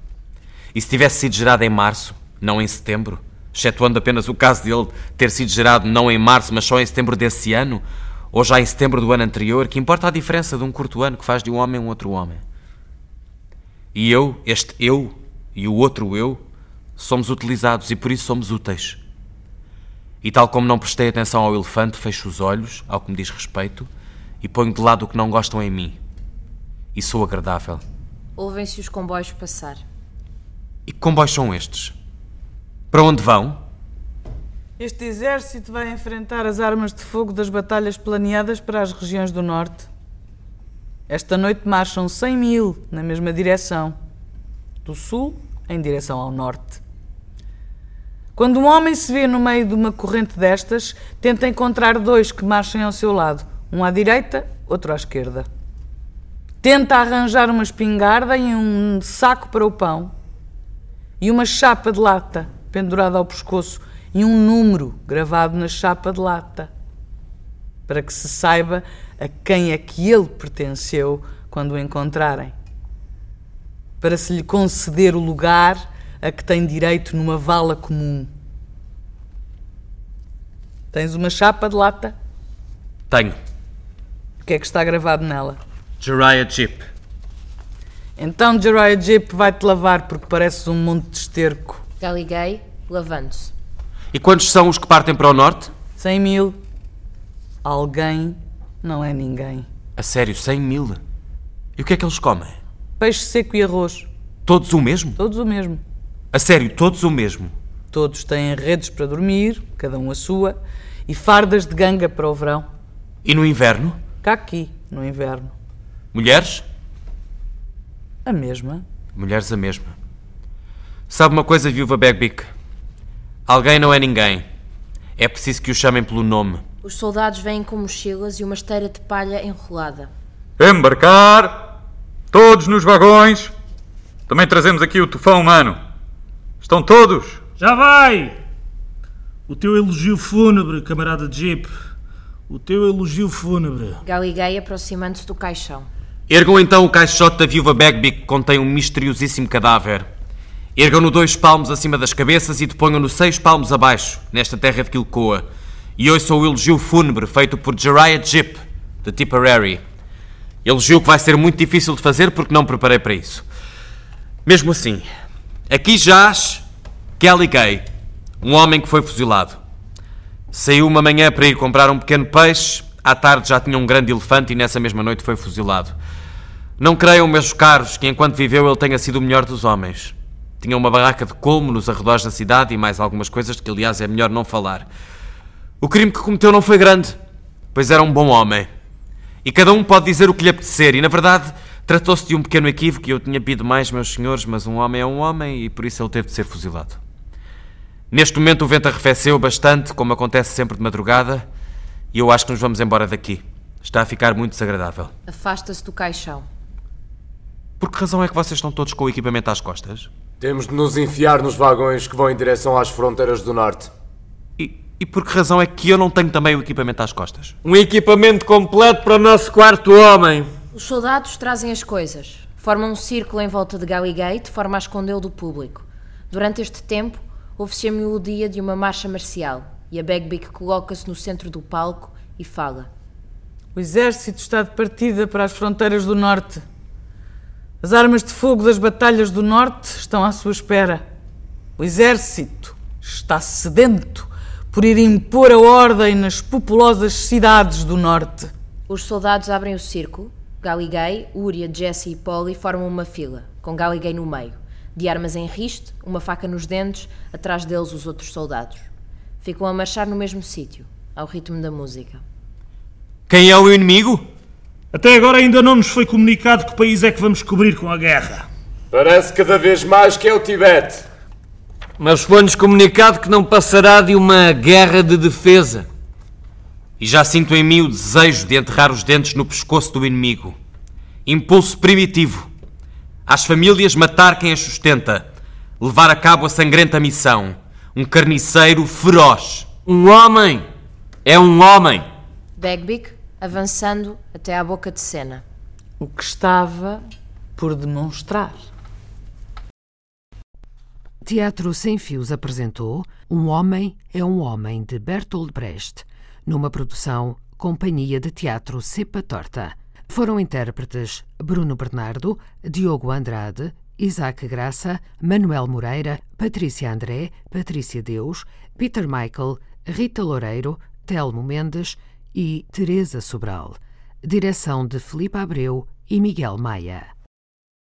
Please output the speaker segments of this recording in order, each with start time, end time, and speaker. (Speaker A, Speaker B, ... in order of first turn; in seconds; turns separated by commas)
Speaker A: 0.7-12.4, Speaker A: 13.9-16.4, Speaker A: 17.0-19.0, Speaker A: 20.2-23.9, Speaker A: 24.4-26.0, Speaker A: 26.9-27.8, Speaker B: 28.4-29.8, Speaker A: 30.9-31.9, Speaker A: 32.9-33.6, Speaker C: 34.8-39.9, Speaker C: 41.1-44.0, Speaker C: 44.8-46.8, Speaker C: 48.4-55.5, Speaker C: 56.6-60.1, Speaker C: 61.2-66.7, Speaker C: 67.9-72.5, Speaker C: 74.0-78.3, Speaker C: 80.9-82.1, Speaker A: 83.1-83.4, Speaker C: 84.4-85.6, Speaker A: 86.0-86.9, Speaker C: 88.2-91.8, Speaker B: 92.0-93.5, Speaker A: 94.1-95.7, Speaker C: 96.0-96.6, Speaker C: 97.6-99.7, Speaker A: 100.0-101.0, Speaker A: 101.8-102.6, Speaker C: 103.0-104.1, Speaker A: 104.5-105.2, Speaker C: 105.2-105.8, Speaker A: 106.3-107.5, Speaker C: 107.9-112.7, Speaker A: 113.2-114.0, Speaker C: 114.2-115.5, Speaker A: 116.1-116.7, Speaker C: 118.2-118.8, Speaker A: 119.1-119.9, Speaker A: 121.1-122.5, Speaker A: 123.5-124.4, Speaker A: 125.2-126.6, Speaker B: 126.8-130.1, Speaker D: 130.6-131.7, Speaker D: 132.3-133.5, Speaker D: 134.3-135.8, Speaker D: 136.6-137.4, Speaker E: 137.6-138.4, Speaker E: 139.5-141.7, Speaker E: 142.5-144.0, Speaker B: 144.0-145.9, Speaker A: 146.3-150.1, Speaker A: 150.8-155.4, Speaker A: 156.0-159.8, Speaker A: 160.6-163.4, Speaker A: 164.4-165.1, Speaker A: 165.7-166.6, Speaker A: 167.2-167.8, Speaker A: 168.4-169.6, Speaker A: 170.5-175.9, Speaker A: 176.8-184.9, Speaker A: 185.8-187.2, Speaker A: 187.7-188.7, Speaker A: 189.4-197.0, Speaker A: 198.1-201.4, Speaker A: 202.1-205.1, Speaker B: 205.3-206.4, Speaker A: 207.8-210.1, Speaker F: 210.4-213.9, Speaker A: 214.6-217.6, Speaker G: 217.6-220.5, Speaker B: 220.7-232.9, Speaker C: 233.7-236.6, Speaker C: 237.8-241.0, Speaker C: 241.8-248.5, Speaker B: 248.9-258.9, Speaker B: 259.4-262.2, Speaker A: 263.3-264.2, Speaker E: 264.9-268.5, Speaker F: 268.9-271.0, Speaker G: 272.0-275.8, Speaker A: 277.0-280.6, Speaker A: 281.2-282.5, Speaker A: 283.3-285.3, Speaker A: 285.8-289.7, Speaker G: 289.9-290.6, Speaker G: 291.2-292.0, Speaker B: 292.6-295.4, Speaker C: 296.0-297.0, Speaker C: 297.6-298.7, Speaker H: 301.2-327.1